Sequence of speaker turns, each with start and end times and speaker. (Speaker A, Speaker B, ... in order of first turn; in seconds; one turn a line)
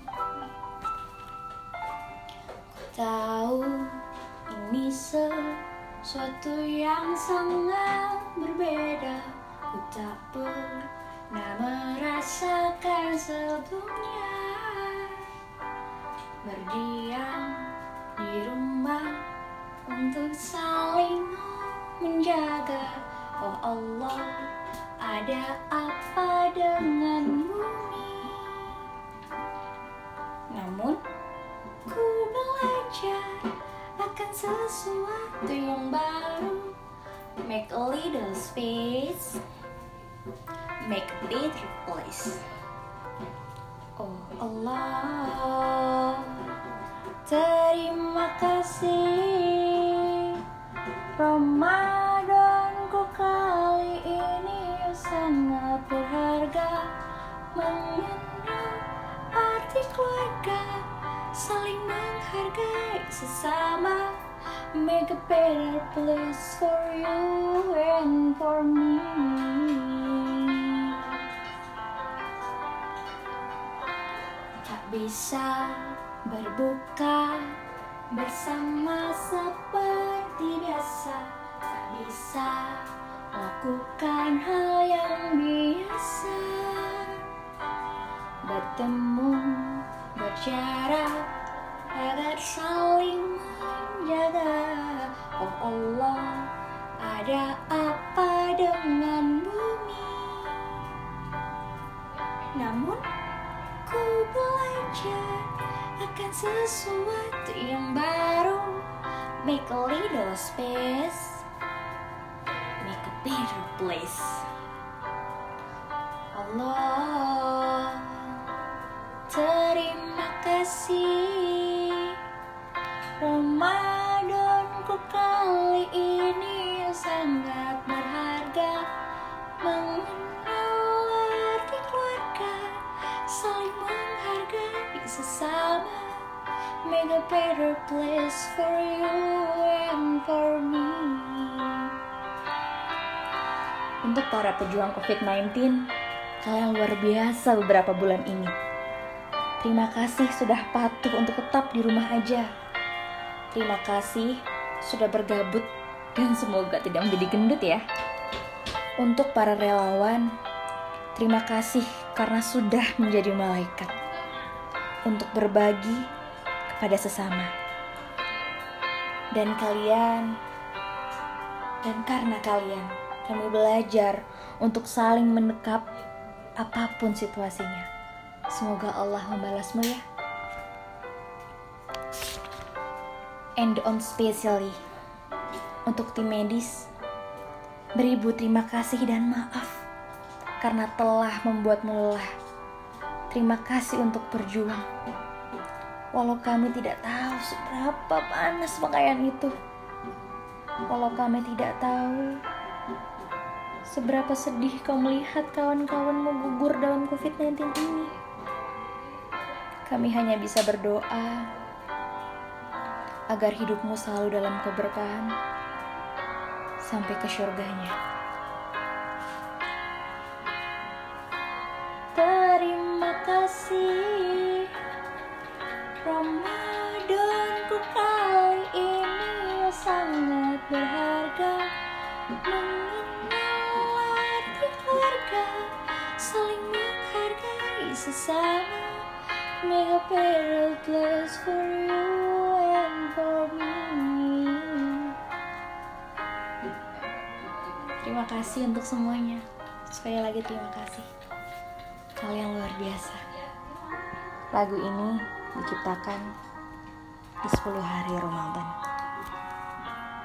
Speaker A: 2.7-15.3
Speaker A: 16.4-19.3
Speaker A: 19.9-28.8
Speaker A: 30.5-31.0
Speaker A: 31.9-36.8
Speaker A: 37.4-39.4
Speaker A: 40.9-42.4
Speaker A: 44.0-46.5
Speaker A: 47.2-50.4
Speaker A: 51.1-56.9
Speaker A: 57.5-64.2
Speaker A: 64.7-71.2
Speaker A: 74.6-77.6
Speaker A: 78.1-87.2
Speaker A: 88.4-91.3
Speaker A: 91.9-100.7
Speaker A: 102.5-103.1
Speaker A: 103.8-111.5
Speaker A: 112.8-114.5
Speaker A: 116.3-118.5
Speaker A: 119.3-122.2
Speaker A: 123.2-128.9
Speaker A: 129.6-136.2
Speaker A: 136.8-141.9
Speaker A: 144.0-145.8
Speaker A: 146.4-148.5
Speaker A: 149.6-152.5
Speaker A: 153.5-157.8
Speaker A: 159.0-160.3
Speaker A: 161.2-164.0
Speaker A: 165.1-166.1
Speaker A: 166.7-167.5
Speaker A: 169.3-170.3
Speaker A: 171.8-175.9
Speaker A: 176.6-177.9
Speaker A: 178.5-180.0
Speaker A: 183.6-184.8
Speaker A: 185.9-186.9
Speaker A: 188.0-189.8
Speaker A: 190.6-192.3
Speaker A: 193.3-194.9
Speaker A: 196.1-199.6
Speaker A: 200.9-202.4
Speaker A: 203.9-208.1
Speaker A: 209.9-211.5
Speaker A: 213.3-215.3
Speaker A: 216.8-218.0
Speaker A: 222.2-224.8
Speaker A: 226.0-231.7
Speaker A: 232.3-239.1
Speaker A: 239.6-245.2
Speaker A: 247.8-251.1
Speaker A: 252.2-253.2
Speaker A: 254.5-256.3
Speaker A: 257.4-258.8